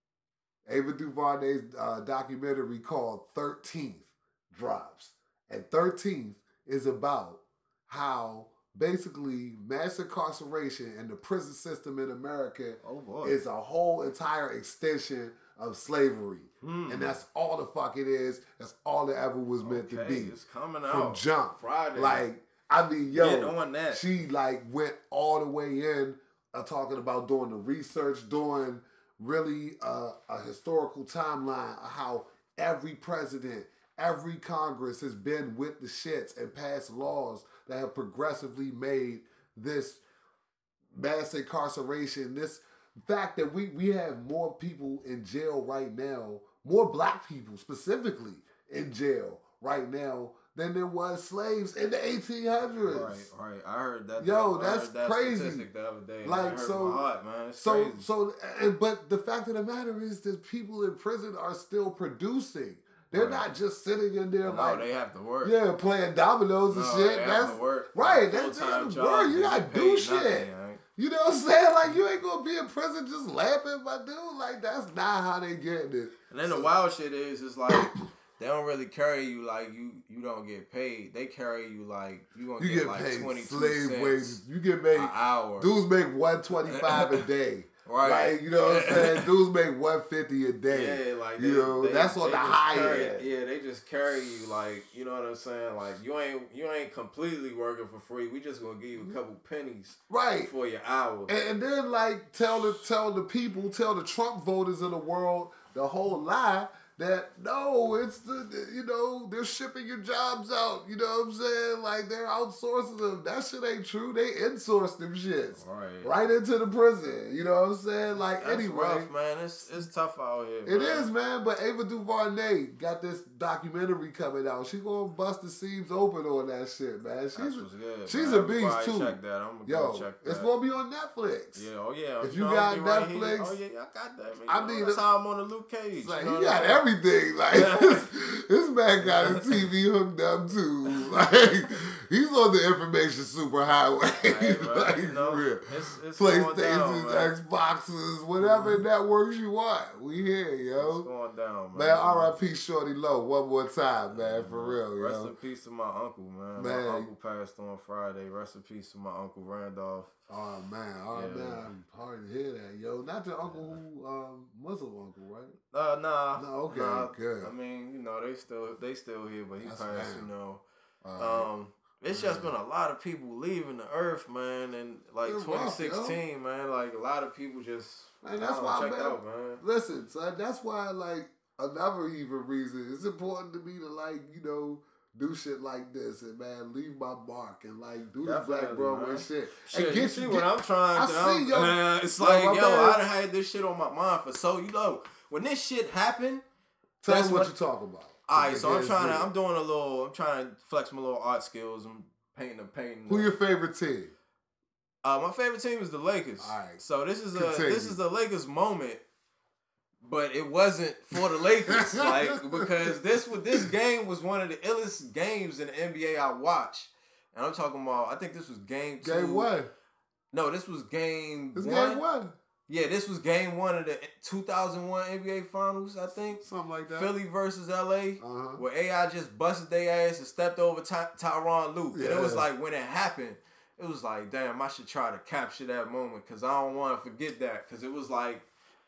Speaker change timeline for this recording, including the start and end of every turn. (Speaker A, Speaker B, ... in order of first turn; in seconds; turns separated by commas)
Speaker A: 0.7-20.4, Speaker B: 12.8-13.4, Speaker B: 16.6-17.1, Speaker B: 19.6-22.2, Speaker A: 20.9-40.0, Speaker B: 23.1-24.0, Speaker A: 41.0-53.3, Speaker B: 52.9-58.1, Speaker A: 54.2-55.7, Speaker A: 56.2-57.0, Speaker A: 57.6-64.9, Speaker B: 63.1-63.5, Speaker B: 64.5-65.5, Speaker A: 65.4-76.7, Speaker B: 66.7-70.8, Speaker B: 76.3-84.4, Speaker A: 82.6-93.3, Speaker B: 84.9-85.7, Speaker B: 86.7-87.1, Speaker B: 87.8-89.3, Speaker B: 90.7-101.3, Speaker A: 100.1-100.5, Speaker A: 101.3-119.8, Speaker B: 115.6-116.1, Speaker B: 118.4-121.1, Speaker A: 120.7-131.7, Speaker B: 127.3-130.5, Speaker B: 131.6-136.8, Speaker A: 132.2-133.6, Speaker A: 134.5-135.1, Speaker A: 136.0-151.1, Speaker B: 137.5-138.1, Speaker B: 139.0-139.7, Speaker B: 144.2-147.3, Speaker B: 148.4-148.8, Speaker B: 150.8-152.4, Speaker A: 151.7-155.3, Speaker B: 154.1-160.1, Speaker A: 156.6-157.1, Speaker A: 160.3-165.6, Speaker B: 161.1-161.7, Speaker B: 163.5-163.8, Speaker B: 165.7-170.6, Speaker A: 166.4-167.5, Speaker A: 169.6-170.3, Speaker A: 171.0-171.5, Speaker B: 171.2-179.6, Speaker A: 172.1-172.5, Speaker A: 175.2-176.2, Speaker A: 178.2-193.0, Speaker B: 188.2-196.4, Speaker A: 197.0-199.3, Speaker B: 197.1-197.5, Speaker B: 198.3-203.3, Speaker A: 203.1-204.1, Speaker B: 205.0-209.0, Speaker A: 206.4-206.8, Speaker A: 207.3-208.0, Speaker B: 210.0-219.5, Speaker A: 211.1-212.9, Speaker A: 219.0-219.7, Speaker B: 220.3-222.0, Speaker A: 221.6-222.4, Speaker B: 222.7-238.4, Speaker A: 226.4-227.1, Speaker A: 228.2-228.6, Speaker A: 231.9-232.5